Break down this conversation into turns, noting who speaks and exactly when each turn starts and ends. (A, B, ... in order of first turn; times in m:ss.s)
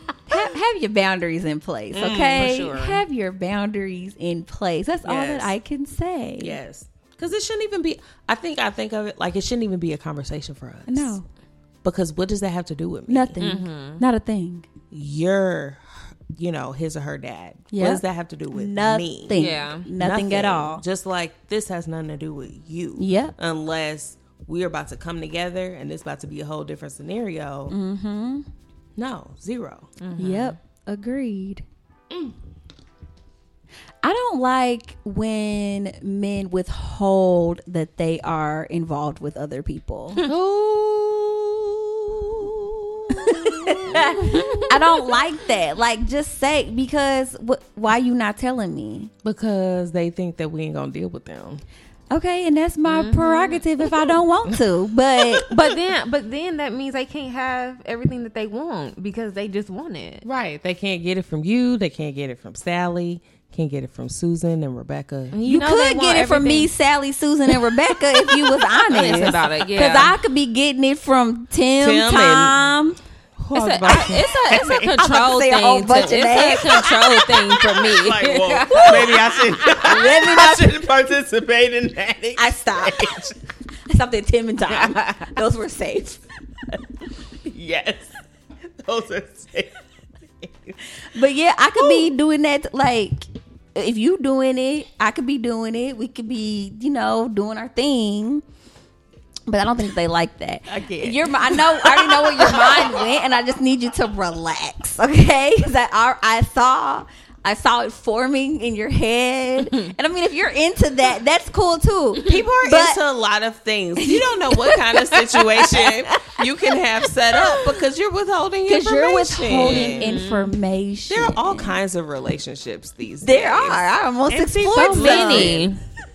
0:00.3-0:06.6 A
0:01.9-0:03.0 B
0:02.2-0:02.7 C
0:05.0-0:05.5 B
0:06.4-0:11.2 B
0:10.9-0:11.3 A
0:11.8-0:13.4 B
0:13.1-0:14.7 A
0:13.4-0:14.0 C
0:14.9-0:27.7 B
0:17.7-0:20.8 A
0:19.3-0:19.9 C
0:23.0-0:23.4 A
0:27.7-0:28.5 A
0:29.0-0:29.9 B
0:30.0-0:30.6 C
0:30.2-0:31.6 A
0:32.1-0:32.4 B
0:34.0-0:40.2 A
0:40.2-0:44.7 B
0:43.2-0:49.1 A
0:44.2-0:44.8 C
0:49.2-0:51.6 B
0:52.1-0:55.6 A
0:52.9-0:53.6 C
0:55.4-1:00.3 C
1:00.2-1:05.4 B
1:05.3-1:06.7 C
1:05.4-1:13.0 A
1:08.9-1:10.2 C
1:11.8-1:12.6 B
1:13.4-1:15.0 B
1:13.5-1:19.7 C
1:13.9-1:17.4 A
1:17.7-1:23.4 B
1:18.7-1:20.8 A
1:22.4-1:23.3 A
1:23.9-1:26.2 A
1:27.3-1:28.1 B
1:28.8-1:29.8 B
1:30.4-1:30.7 B
1:31.1-1:38.4 A
1:31.8-1:32.1 B
1:39.5-1:53.0 A
1:40.7-1:43.1 B
1:52.2-2:00.2 B
1:54.0-1:55.1 A
1:55.8-1:56.4 A
1:57.3-1:57.7 A
1:58.7-2:01.8 A
1:59.6-2:00.5 C
2:01.1-2:05.7 B
2:03.2-2:05.7 A
2:04.8-2:05.8 C